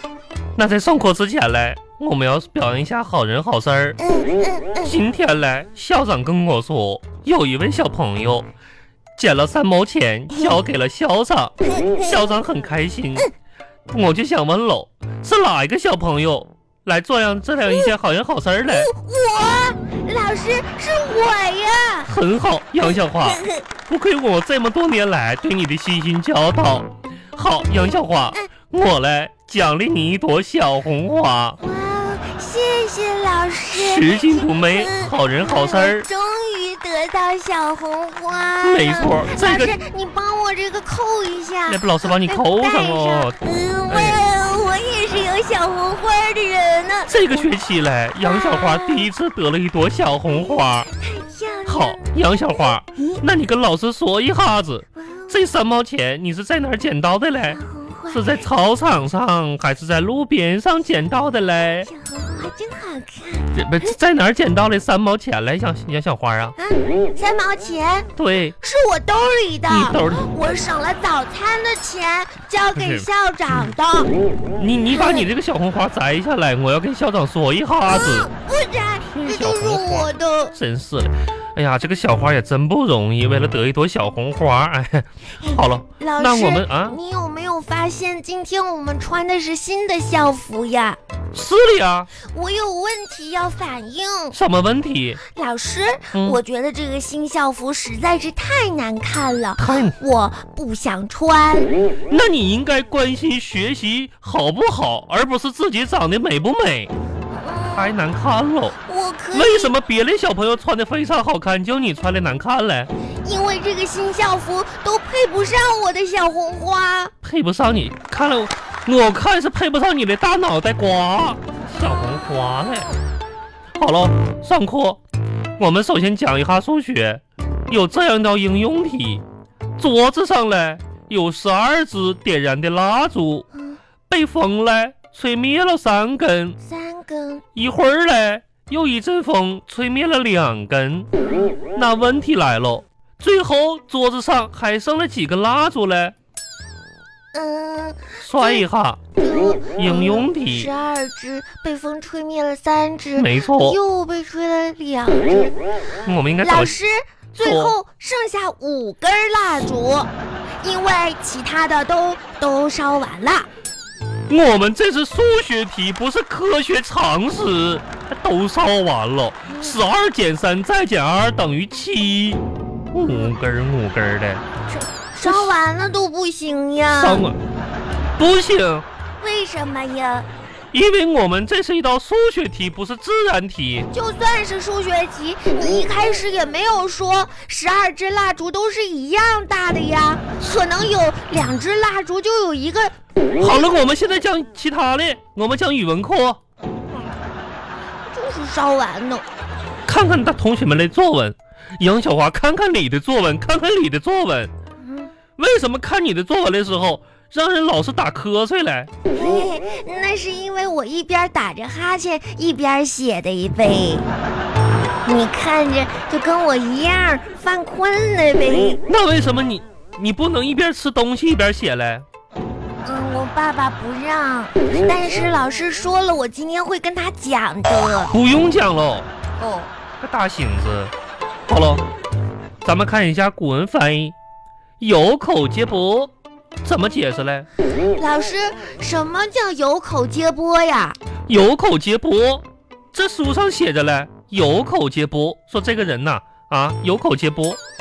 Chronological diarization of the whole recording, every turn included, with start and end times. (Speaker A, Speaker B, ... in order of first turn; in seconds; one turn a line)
Speaker A: 0.6-4.0
Speaker B: 4.0-5.0
Speaker A: 4.8-8.5
Speaker A: 9.2-13.3
Speaker B: 10.3-10.6
Speaker B: 11.6-12.3
Speaker A: 13.9-18.9
Speaker B: 17.7-17.9
Speaker B: 18.7-22.1
Speaker A: 22.1-31.6
Speaker B: 22.8-23.7
Speaker B: 31.6-47.5
Speaker A: 33.7-36.1
Speaker A: 38.6-39.8
Speaker A: 41.7-44.2
Speaker A: 47.1-50.9
Speaker B: 48.2-49.1
Speaker B: 50.9-53.2
Speaker A: 51.7-57.6
Speaker B: 55.0-55.5
Speaker B: 57.4-58.4
Speaker A: 58.1-61.9
Speaker B: 61.9-63.5
Speaker A: 63.5-66.6
Speaker B: 66.6-68.1
Speaker A: 68.2-68.6
Speaker B: 68.6-74.1
Speaker A: 69.7-70.3
Speaker A: 72.7-73.7
Speaker A: 74.6-78.3
Speaker B: 74.9-75.3
Speaker B: 77.8-80.5
Speaker A: 79.1-87.0
Speaker B: 85.4-91.0
Speaker A: 91.3-92.1
Speaker B: 92.2-94.4
Speaker A: 94.3-95.2
Speaker B: 95.3-101.7
Speaker A: 96.1-96.4
Speaker A: 99.6-100.0
Speaker A: 102.1-106.9
Speaker B: 107.3-108.0
Speaker A: 107.7-108.8
Speaker B: 108.8-109.7
Speaker A: 109.3-112.9
Speaker B: 113.2-117.1
Speaker A: 117.2-123.0
Speaker A: 123.8-125.0
Speaker A: 125.6-129.2
Speaker A: 129.8-133.5
Speaker B: 133.5-133.8
Speaker A: 134.1-136.6
Speaker B: 136.6-137.4
Speaker A: 137.6-141.1
Speaker B: 141.2-141.6
Speaker A: 141.7-146.2
Speaker B: 147.3-148.7
Speaker A: 148.2-149.0
Speaker B: 149.2-155.6
Speaker A: 149.8-150.7
Speaker A: 153.2-153.8
Speaker A: 156.0-156.7
Speaker B: 156.4-163.5
Speaker A: 157.4-157.8
Speaker A: 164.3-174.5
Speaker B: 169.5-169.8
Speaker B: 174.7-177.3
Speaker A: 175.2-175.6
Speaker A: 176.9-177.4
Speaker A: 178.2-178.9
Speaker B: 179.2-180.3
Speaker A: 180.7-183.9
Speaker B: 183.9-192.9
Speaker A: 193.4-196.4
Speaker B: 198.1-199.3
Speaker A: 199.9-204.5
Speaker B: 204.8-205.1
Speaker A: 205.4-208.9
Speaker B: 209.1-214.1
Speaker B: 215.1-218.8
Speaker A: 218.9-222.1
Speaker B: 222.8-228.1
Speaker A: 228.1-229.1
Speaker B: 229.4-229.7
Speaker A: 230.0-230.9
Speaker A: 231.5-231.9
Speaker A: 232.6-234.2
Speaker A: 234.8-236.1
Speaker A: 236.6-237.5
Speaker B: 237.9-241.0
Speaker A: 241.3-247.6